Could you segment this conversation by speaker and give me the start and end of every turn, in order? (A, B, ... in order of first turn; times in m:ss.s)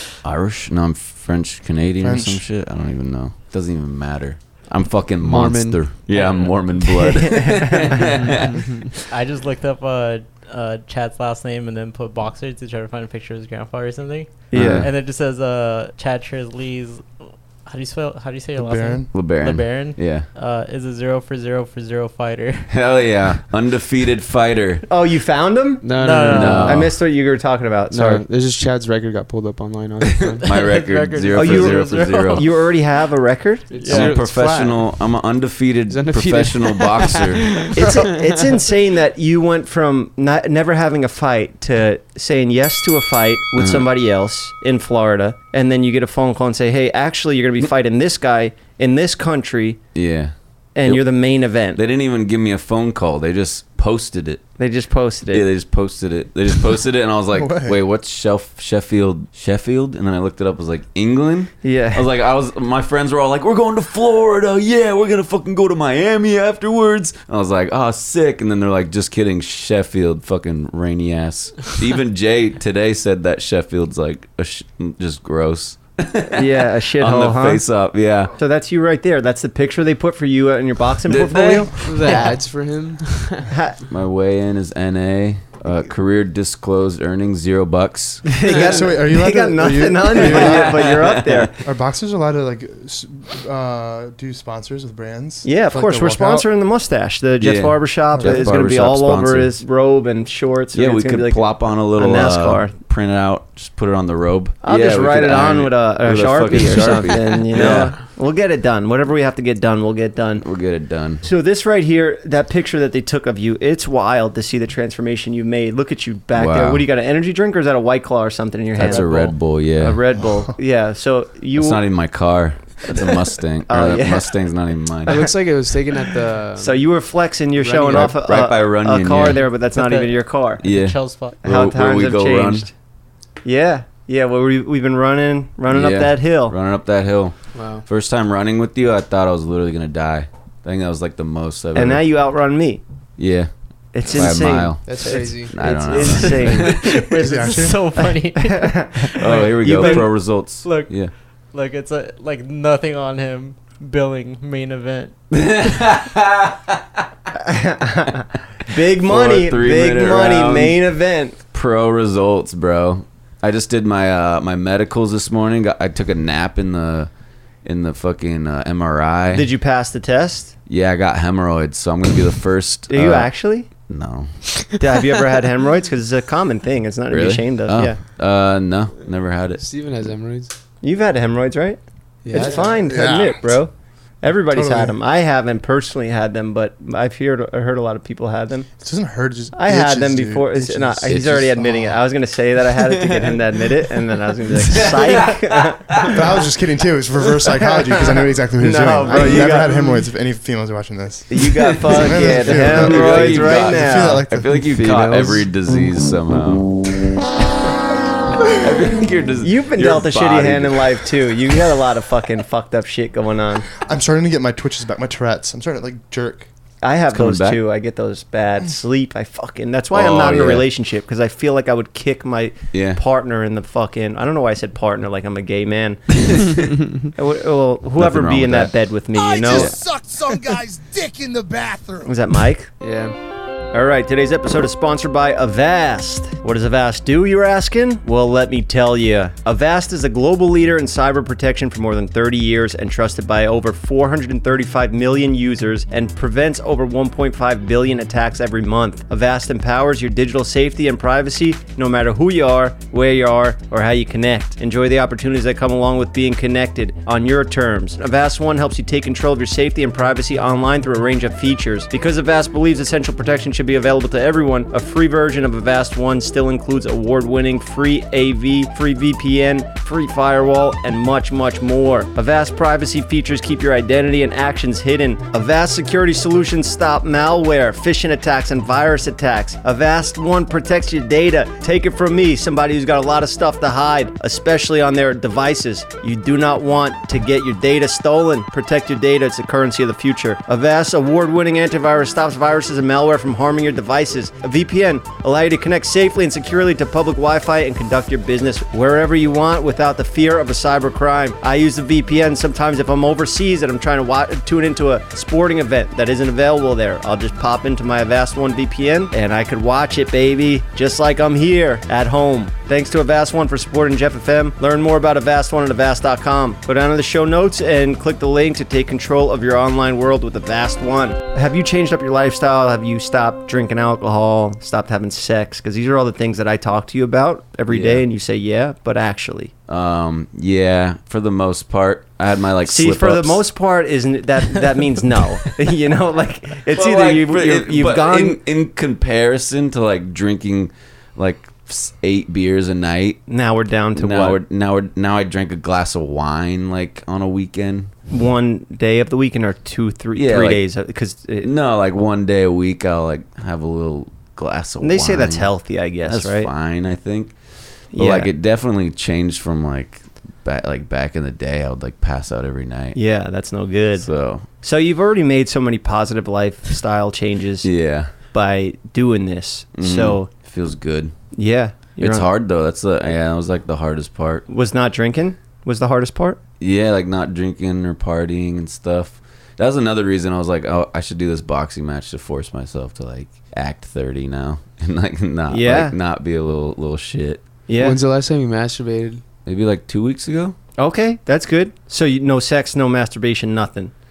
0:00.2-0:08.8 A
0:02.0-0:02.4 B
0:05.2-0:06.3 C
0:06.9-0:08.1 D
0:08.2-0:08.8 C
0:09.1-0:17.1 E
0:14.5-0:14.9 D
0:14.5-0:14.9 A
0:17.6-0:22.7 E
0:18.6-0:19.1 B
0:19.1-0:20.2 A
0:22.7-0:24.8 A
0:24.9-0:28.2 D
0:25.8-0:26.9 C
0:26.0-0:26.7 E
0:26.3-0:26.9 A
0:27.9-0:30.5 C
0:30.2-0:32.5 A
0:30.4-0:32.4 E
0:31.3-0:33.8 D
0:33.7-0:34.9 C
0:33.8-0:34.2 E
0:33.9-0:37.5 A
0:35.9-0:38.6 C
0:37.7-0:49.8 D
0:43.6-0:43.9 A
0:49.9-0:51.1 A
0:50.8-0:51.8 D
0:51.7-0:54.5 A
0:54.6-0:55.5 D
0:55.3-1:18.3 A
0:57.3-0:57.8 B
1:01.6-1:02.0 D
1:16.3-1:17.6 D
1:18.4-1:21.8 D
1:21.0-1:22.2 A
1:21.8-1:23.5 C
1:23.5-1:23.8 D
1:23.9-1:28.3 A
1:28.3-1:31.5 D
1:28.5-1:31.0 B
1:30.2-1:31.5 A
1:31.6-1:36.5 B
1:35.4-1:42.7 D
1:37.4-1:39.5 A
1:38.1-1:38.5 B
1:40.7-1:48.0 A
1:44.6-1:50.4 D
1:50.4-1:51.2 A
1:51.2-2:01.8 D
1:56.3-1:56.8 A
1:58.8-2:00.0 A
2:00.2-2:00.5 B
2:01.5-2:05.3 A
2:02.8-2:03.1 D
2:03.7-2:04.3 D
2:05.0-2:06.9 C
2:06.6-2:10.6 D
2:07.6-2:08.1 C
2:07.9-2:09.5 A
2:09.7-2:11.4 E
2:10.6-2:12.7 A
2:11.4-2:12.7 D
2:13.4-2:16.5 D
2:15.7-2:22.0 A
2:17.5-2:17.8 C
2:21.8-2:22.8 D
2:23.2-2:23.5 A
2:23.9-2:27.0 D
2:24.0-2:26.9 A
2:24.8-2:26.9 C
2:26.7-2:35.1 E
2:27.1-2:27.9 B
2:28.0-2:30.1 D
2:29.2-2:31.1 A
2:35.3-2:36.8 A
2:37.4-2:41.4 D
2:39.0-2:40.8 A
2:41.5-2:47.1 A
2:47.6-2:49.5 A
2:49.3-2:50.5 D
2:50.7-2:54.4 A
2:52.9-2:53.7 D
2:54.8-2:58.0 D
2:57.1-2:59.6 A
2:59.6-3:00.5 C
3:00.8-3:08.7 D
3:02.2-3:02.8 C
3:02.5-3:03.6 B
3:04.5-3:05.0 B
3:08.8-3:12.0 B
3:09.5-3:16.2 D
3:11.1-3:11.5 A
3:14.6-3:16.2 A
3:16.1-3:24.6 B
3:17.6-3:20.0 D
3:19.1-3:19.5 A
3:21.3-3:24.2 D
3:21.9-3:26.9 A
3:24.6-3:25.5 C
3:28.5-3:31.0 A
3:29.4-3:33.7 D
3:33.8-3:36.5 B
3:36.8-3:46.0 D
3:37.1-3:37.6 A
3:39.9-3:40.6 A
3:42.7-3:43.0 A
3:46.2-3:46.6 A
3:47.1-3:49.7 D
3:48.0-3:48.7 A
3:49.1-3:52.1 F
3:49.5-3:49.8 A
3:52.0-3:52.7 D
3:52.8-3:53.1 C
3:53.7-5:29.5 D
5:27.7-5:28.0 A
5:29.7-5:33.4 A
5:32.6-5:38.4 D
5:36.7-5:43.2 A
5:43.3-5:44.4 D
5:44.0-5:47.9 A
5:48.1-5:51.5 D
5:50.1-5:50.6 A
5:51.4-5:55.5 A
5:54.8-5:56.5 D
5:56.1-5:57.4 A
5:57.9-5:58.3 D
5:57.9-6:03.0 A
6:02.9-6:10.3 D
6:04.0-6:04.4 A
6:07.6-6:08.1 A
6:09.8-6:11.2 A
6:11.3-6:12.3 D
6:12.0-6:14.4 A
6:14.5-6:16.4 D
6:16.6-6:27.4 A
6:25.5-6:25.9 D
6:27.7-6:28.0 D
6:27.8-6:29.2 C
6:29.4-6:30.6 A
6:30.8-6:33.9 D